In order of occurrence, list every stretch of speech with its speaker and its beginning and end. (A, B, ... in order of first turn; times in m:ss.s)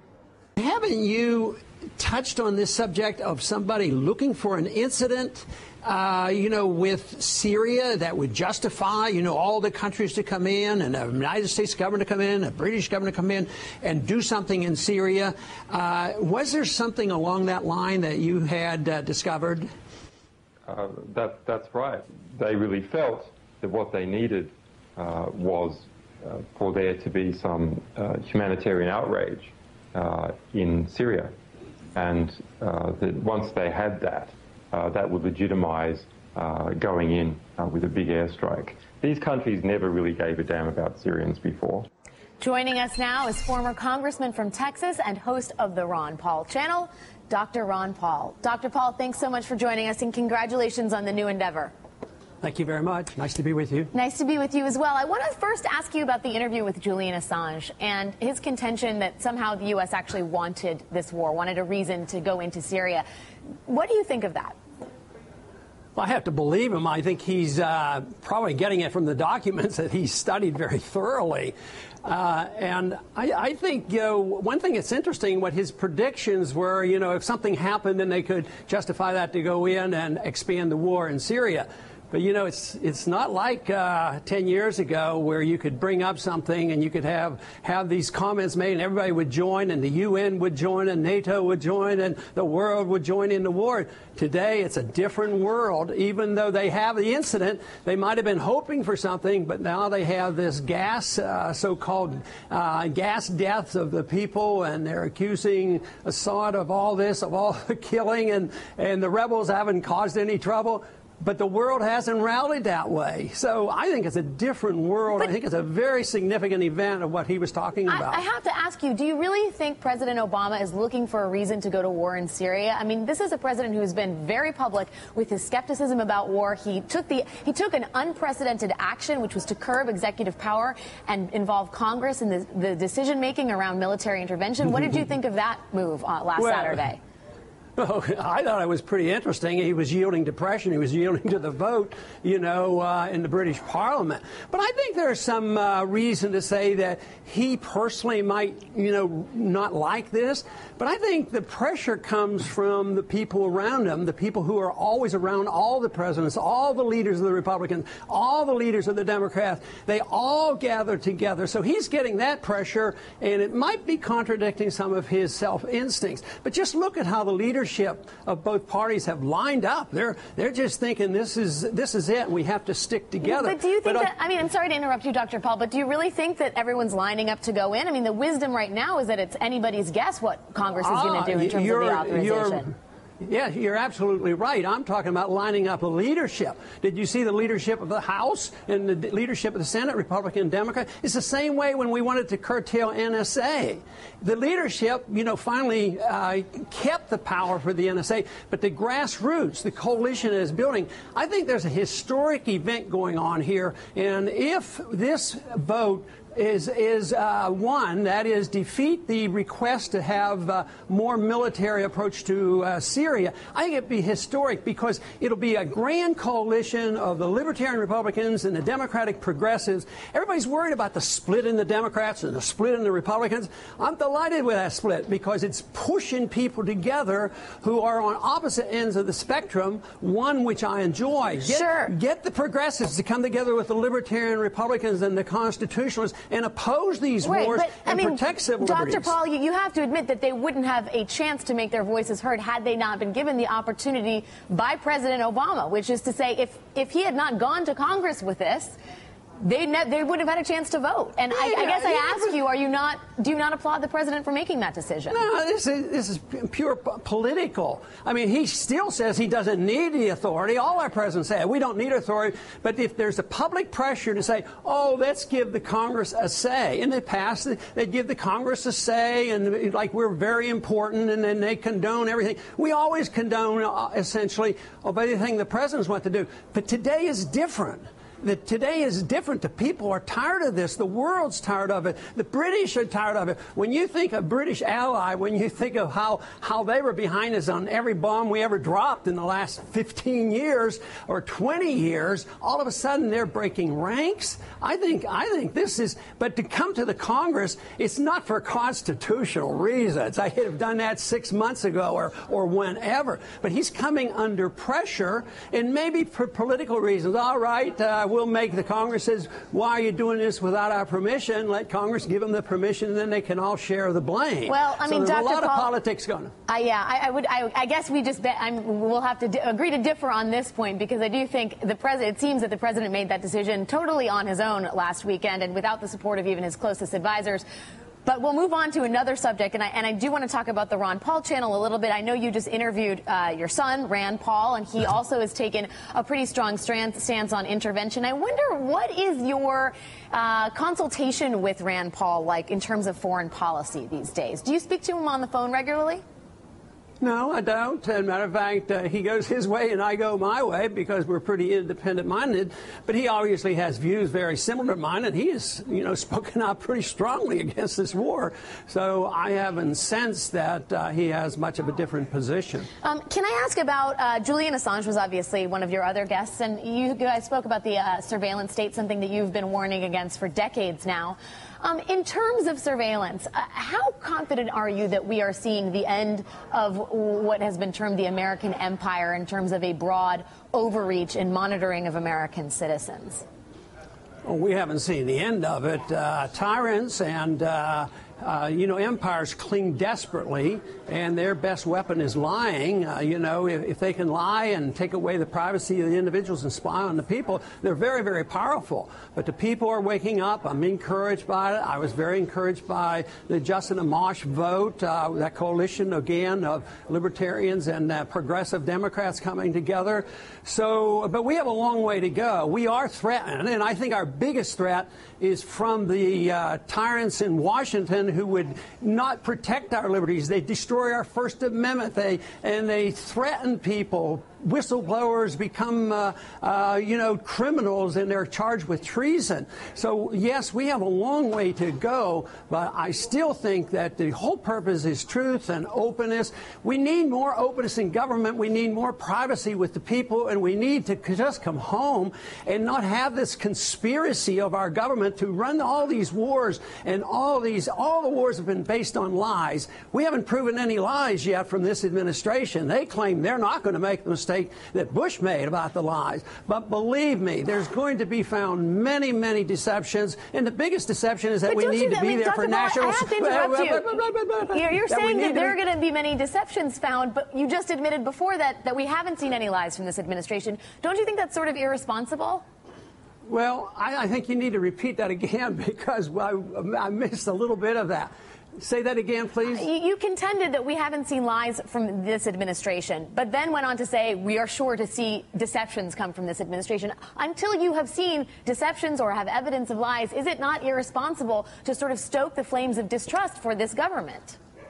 0:00.6-0:19.7 A
0:20.7-0:31.3 B
0:32.0-0:41.8 B
0:42.4-0:51.7 C
0:52.4-0:53.9 A
0:53.9-1:03.0 C
1:03.7-1:04.6 C
1:06.0-1:58.2 A
1:57.9-2:17.0 C
2:16.4-2:16.8 A
2:17.8-2:54.1 A
2:53.2-3:02.7 C
3:00.8-3:59.2 A
3:51.4-3:51.9 C
3:57.2-4:08.7 C
4:09.4-4:15.2 C
4:11.3-4:12.4 A
4:15.1-5:16.3 A
5:14.5-5:15.7 C
5:16.5-5:27.4 C
5:28.1-5:46.0 C
5:47.0-6:02.7 A
6:02.8-6:23.2 C
6:24.2-7:45.6 A
7:41.5-7:43.8 C
7:44.5-7:52.4 C
7:53.2-7:59.7 A
7:59.5-8:14.4 C